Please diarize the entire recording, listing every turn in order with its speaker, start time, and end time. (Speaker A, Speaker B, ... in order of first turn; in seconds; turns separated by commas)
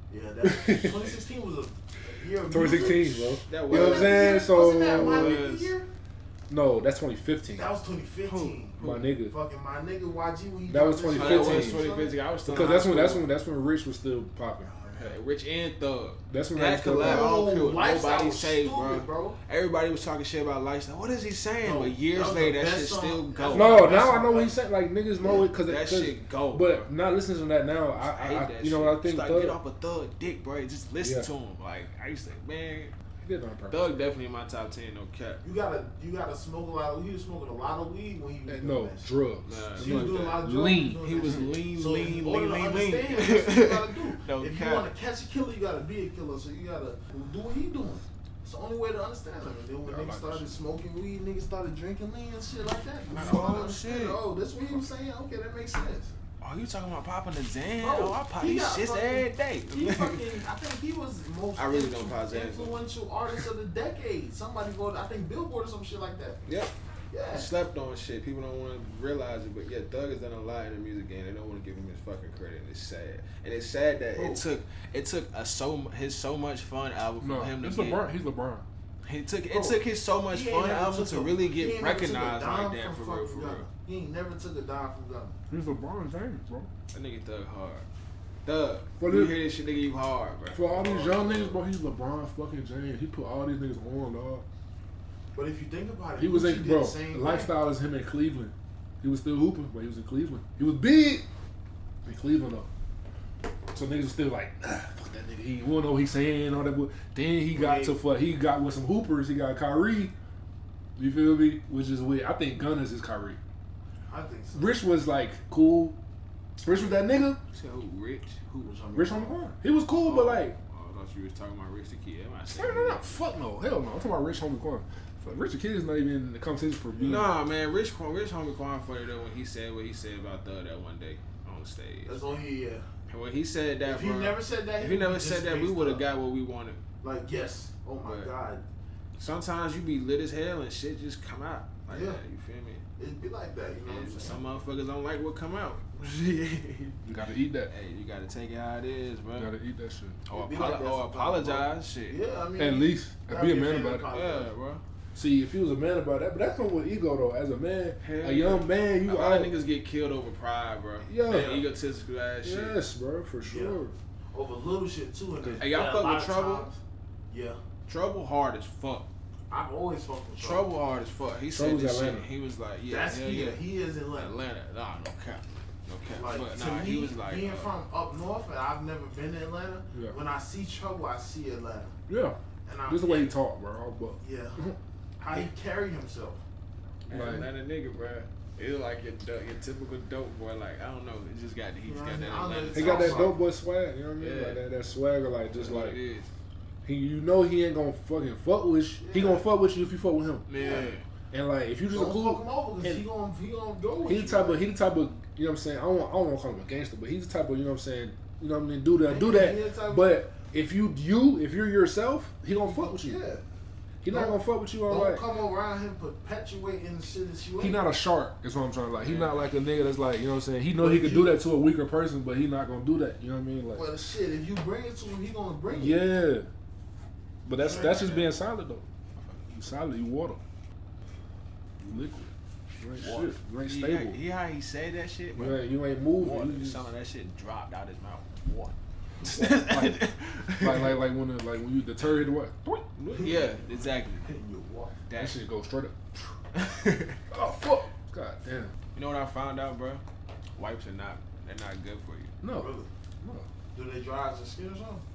Speaker A: 0.1-5.9, Speaker B: 0.4-1.1, Speaker B: 2.4-5.4, Speaker C: 3.5-5.8, Speaker B: 6.5-7.7, Speaker A: 7.6-12.2, Speaker C: 8.2-9.1, Speaker B: 8.8-9.3, Speaker B: 10.7-11.8, Speaker C: 11.1-13.3, Speaker B: 12.5-14.7, Speaker A: 14.6-15.2, Speaker C: 15.0-24.2, Speaker B: 16.3-17.4, Speaker A: 16.9-19.4, Speaker A: 21.6-24.6, Speaker B: 23.5-29.6, Speaker A: 25.2-25.5, Speaker C: 25.5-26.9, Speaker C: 27.9-32.9, Speaker B: 31.0-31.3, Speaker B: 33.2-34.1, Speaker C: 33.7-35.4, Speaker A: 35.4-39.1, Speaker B: 38.5-41.5, Speaker C: 39.5-44.9, Speaker A: 39.8-56.1, Speaker B: 49.9-50.6, Speaker C: 53.1-54.2, Speaker C: 56.4-60.4, Speaker A: 57.8-66.4, Speaker C: 61.6-62.8, Speaker C: 66.5-66.7, Speaker A: 67.1-67.5, Speaker C: 67.3-78.0, Speaker A: 74.2-74.4, Speaker B: 77.2-78.7, Speaker C: 79.0-83.7, Speaker A: 79.5-85.4, Speaker B: 85.5-86.7, Speaker C: 86.9-87.9, Speaker C: 88.4-91.6, Speaker B: 89.0-89.4, Speaker B: 90.5-94.5, Speaker A: 95.3-97.5, Speaker B: 96.2-101.3, Speaker B: 102.0-102.7, Speaker B: 103.7-110.1, Speaker A: 107.5-108.0, Speaker B: 111.0-113.4, Speaker A: 114.1-114.8, Speaker B: 114.5-116.0, Speaker B: 116.6-117.4, Speaker C: 117.5-118.8, Speaker A: 118.6-119.4, Speaker B: 119.0-120.6, Speaker C: 120.0-123.2, Speaker B: 122.5-127.3, Speaker A: 126.9-127.2, Speaker C: 127.0-132.2, Speaker A: 132.1-132.9, Speaker C: 133.1-136.8, Speaker A: 133.9-136.1, Speaker A: 137.0-138.6, Speaker C: 138.0-138.3, Speaker C: 139.2-142.8, Speaker A: 141.9-142.2, Speaker A: 143.0-144.4, Speaker C: 143.8-147.0, Speaker B: 147.0-147.7, Speaker C: 147.7-149.5, Speaker B: 149.4-150.2, Speaker C: 150.3-152.2, Speaker A: 150.3-154.5, Speaker B: 152.6-154.1, Speaker C: 154.1-154.8, Speaker B: 155.1-159.6, Speaker C: 158.0-162.8, Speaker B: 161.1-161.6, Speaker A: 161.3-161.7, Speaker B: 162.4-163.9, Speaker A: 163.4-163.8, Speaker A: 164.3-166.8, Speaker C: 165.6-166.7, Speaker A: 167.3-167.6, Speaker C: 167.9-169.1, Speaker A: 169.5-170.7, Speaker C: 170.4-173.6, Speaker B: 171.5-172.3, Speaker A: 172.9-174.4, Speaker C: 174.2-177.7, Speaker A: 176.1-181.9, Speaker B: 182.1-184.8, Speaker A: 182.7-183.3, Speaker A: 184.2-186.4, Speaker C: 187.1-193.3, Speaker B: 187.1-187.5, Speaker A: 191.8-193.4, Speaker B: 192.7-196.0, Speaker C: 194.2-194.6, Speaker C: 195.5-196.3, Speaker B: 196.8-200.5, Speaker A: 199.0-199.5, Speaker C: 200.5-201.1, Speaker A: 200.6-200.9, Speaker B: 201.3-203.1, Speaker A: 201.9-204.6, Speaker B: 204.0-213.2, Speaker A: 209.0-210.2, Speaker A: 212.6-213.4, Speaker B: 214.0-215.2, Speaker A: 214.1-217.8, Speaker B: 217.6-223.9, Speaker C: 219.0-219.5, Speaker A: 220.8-221.4, Speaker A: 223.8-226.1, Speaker B: 225.7-226.5, Speaker B: 227.4-228.9, Speaker A: 227.6-228.2, Speaker C: 227.6-228.3, Speaker C: 229.2-229.5, Speaker B: 229.5-230.4, Speaker B: 231.8-234.2, Speaker C: 233.0-241.0, Speaker B: 235.3-236.9, Speaker B: 239.3-240.0, Speaker B: 240.6-243.3, Speaker C: 243.0-244.3, Speaker A: 243.1-245.0, Speaker C: 245.1-245.4, Speaker B: 245.2-246.3, Speaker C: 246.5-247.2, Speaker B: 247.3-248.7, Speaker C: 248.9-250.0, Speaker C: 250.6-252.3, Speaker B: 252.4-253.5, Speaker A: 252.6-252.9, Speaker A: 253.7-255.0